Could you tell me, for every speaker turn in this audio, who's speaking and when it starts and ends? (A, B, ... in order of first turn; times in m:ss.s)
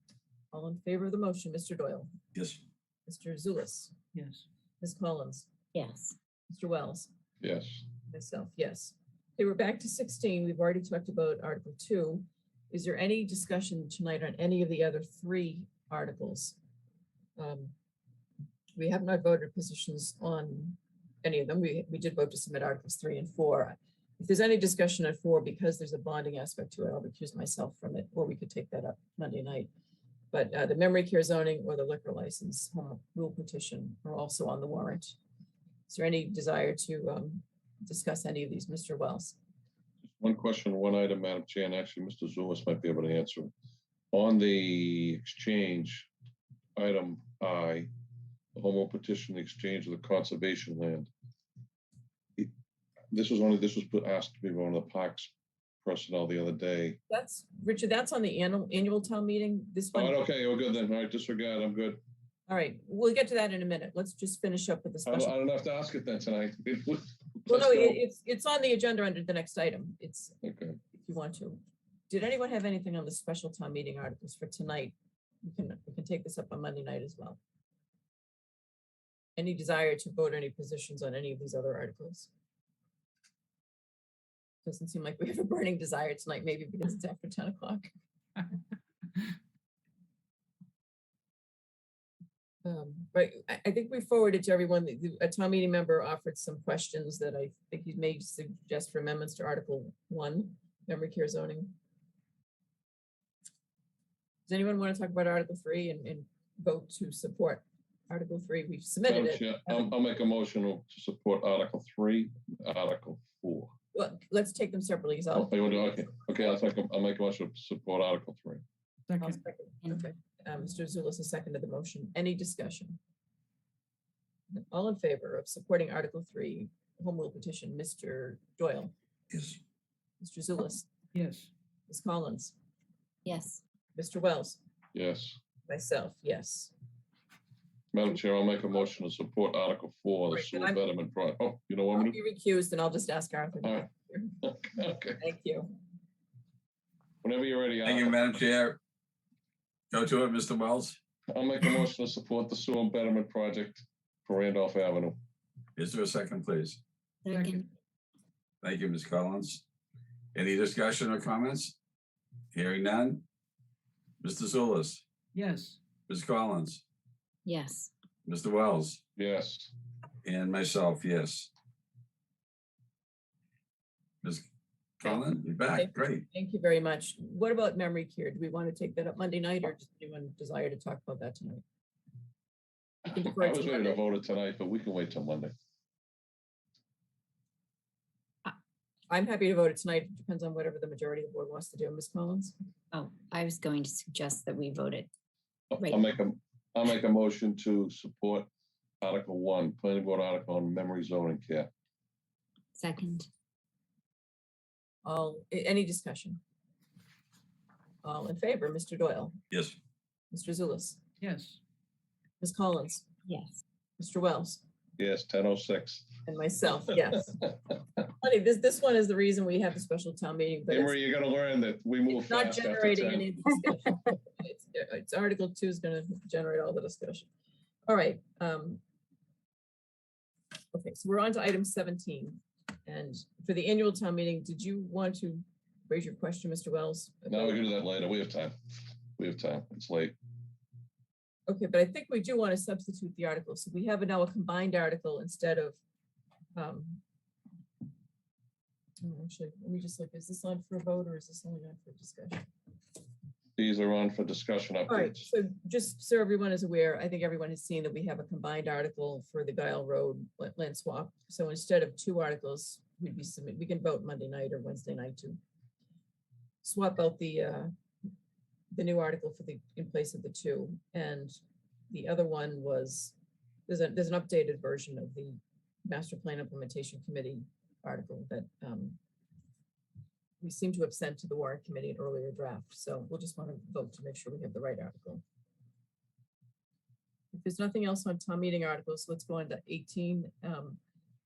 0:00.5-0:02.1 A
0:02.3-0:02.6 B
0:03.1-0:03.9 A
0:04.1-0:04.4 C
0:04.8-0:05.5 A
0:05.7-0:06.1 D
0:06.5-0:07.1 A
0:07.4-0:07.8 E
0:08.1-0:16.6 A
0:17.4-0:17.7 A
0:18.8-0:29.7 A
0:30.3-0:35.2 A
0:35.9-0:39.4 A
0:40.0-0:43.5 E
0:44.1-0:46.1 E
0:46.8-0:47.9 E
0:48.5-0:51.1 E
0:53.1-0:55.3 E
0:55.8-0:57.0 E
0:57.1-1:00.2 A
0:59.9-1:02.0 E
1:02.5-1:05.3 A
1:05.0-1:08.0 E
1:07.5-1:10.4 A
1:10.4-1:10.8 E
1:10.9-1:17.4 A
1:19.4-1:22.3 A
1:24.6-1:27.9 A
1:32.6-1:41.7 A
1:44.5-1:49.9 A
1:49.0-1:53.7 E
1:53.9-1:56.5 A
1:55.3-1:58.6 E
1:59.1-1:59.4 C
1:59.2-2:03.0 A
2:04.5-2:08.9 A
2:09.3-2:09.6 B
2:10.2-2:10.9 A
2:11.1-2:11.5 C
2:11.9-2:12.6 A
2:13.2-2:13.6 D
2:13.9-2:14.6 A
2:14.9-2:15.4 E
2:15.7-2:16.7 A
2:17.9-2:22.2 E
2:20.3-2:20.8 A
2:21.9-2:24.4 A
2:24.4-2:25.2 E
2:25.2-2:25.7 A
2:27.2-2:28.4 E
2:27.8-2:28.8 B
2:29.9-2:31.0 B
2:31.3-2:35.2 E
2:35.8-2:36.8 B
2:37.2-2:37.6 D
2:37.3-2:37.6 C
2:38.6-2:39.6 B
2:40.3-2:41.8 B
2:42.5-2:43.2 B
2:44.2-2:45.0 B
2:45.3-2:45.8 C
2:46.1-2:46.8 B
2:47.4-2:47.9 D
2:48.2-2:49.0 B
2:49.2-2:49.7 E
2:50.2-2:51.5 B
2:55.0-2:56.2 B
2:55.0-3:01.6 A
3:03.0-3:04.0 A
3:03.0-3:05.5 E
3:09.1-3:12.6 A
3:12.9-3:15.1 D
3:15.7-3:18.5 E
3:19.0-3:21.7 E
3:22.8-3:23.3 D
3:25.0-3:26.4 A
3:28.0-3:29.3 A
3:29.5-3:29.8 B
3:30.3-3:31.0 A
3:31.2-3:31.6 C
3:32.4-3:33.1 A
3:33.2-3:33.6 D
3:34.0-3:34.6 A
3:35.0-3:36.2 E
3:36.2-3:37.5 A
3:38.0-3:40.9 A
3:40.7-3:43.5 E
3:42.1-3:47.3 A
3:47.9-3:48.8 A
3:50.7-3:57.7 A
3:57.3-3:58.5 E
3:59.2-4:00.2 E
4:01.5-4:05.8 A
4:06.6-4:07.0 A
4:09.0-4:12.5 A
4:13.6-4:15.3 E
4:14.9-4:25.4 A
4:26.6-4:27.7 A
4:28.7-4:31.4 A
4:31.9-4:33.1 A
4:33.7-4:39.0 A
4:40.4-4:45.2 A
4:47.3-4:50.8 A